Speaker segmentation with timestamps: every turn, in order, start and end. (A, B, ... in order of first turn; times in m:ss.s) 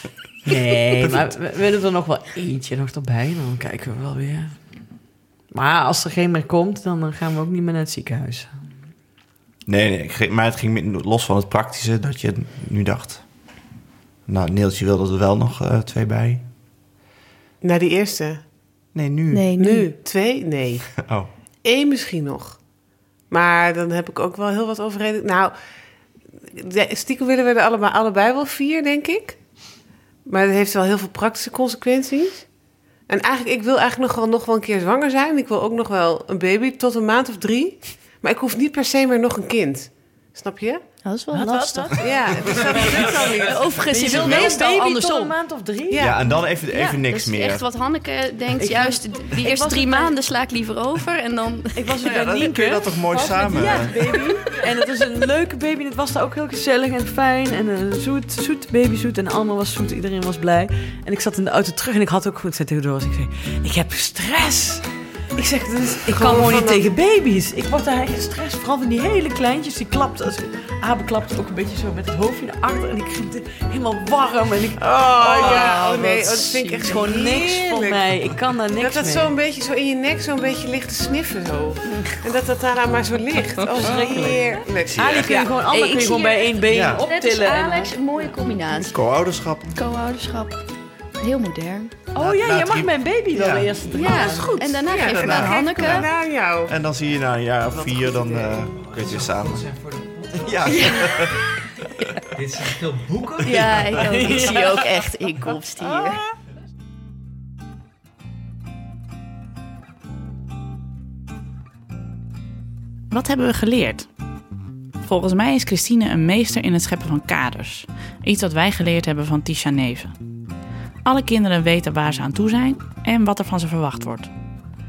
0:00.5-0:04.6 A
0:05.5-0:08.5 A
0:09.7-0:13.2 B
0:14.3-0:16.4 B
0:17.6-0:18.4 C
0:18.9-0:19.5 B
0:19.3-0:19.9 D
0:19.6-0:21.0 C
0:21.0-0:21.3 B
0:21.6-0:22.6 C
0:23.3-0:25.6 C
0:26.5-0:29.4 C
0:30.3-0:32.5 C
0:33.1-0:40.8 C
0:41.0-0:42.0 D
0:41.3-0:46.0 A
0:42.0-0:43.6 C
0:43.1-0:45.3 D
0:45.9-0:46.4 C
0:46.0-0:47.6 B
0:46.5-0:52.0 D
0:48.6-0:50.1 A
0:51.8-1:19.3 A
0:52.0-0:54.1 B
1:06.1-1:06.8 C
1:14.8-1:18.1 C
1:18.8-1:25.6 C
1:21.8-1:22.2 D
1:23.8-1:28.0 A
1:24.9-1:25.3 B
1:25.6-1:29.0 D
1:26.7-1:27.0 B
1:28.8-1:29.7 B
1:29.7-1:30.6 D
1:31.2-1:32.0 D
1:32.1-1:34.5 A
1:32.2-1:33.9 B
1:33.9-1:36.1 D
1:34.0-1:36.7 C
1:34.9-1:36.1 B
1:36.7-1:39.7 B
1:37.9-1:38.5 A
1:38.5-1:41.2 E
1:40.3-1:41.5 B
1:40.7-1:41.4 D
1:42.0-1:42.3 D
1:42.3-1:44.3 E
1:43.4-1:46.2 D
1:43.9-1:45.0 A
1:53.1-1:54.1 F
1:55.0-2:00.2 F
2:01.0-2:04.3 F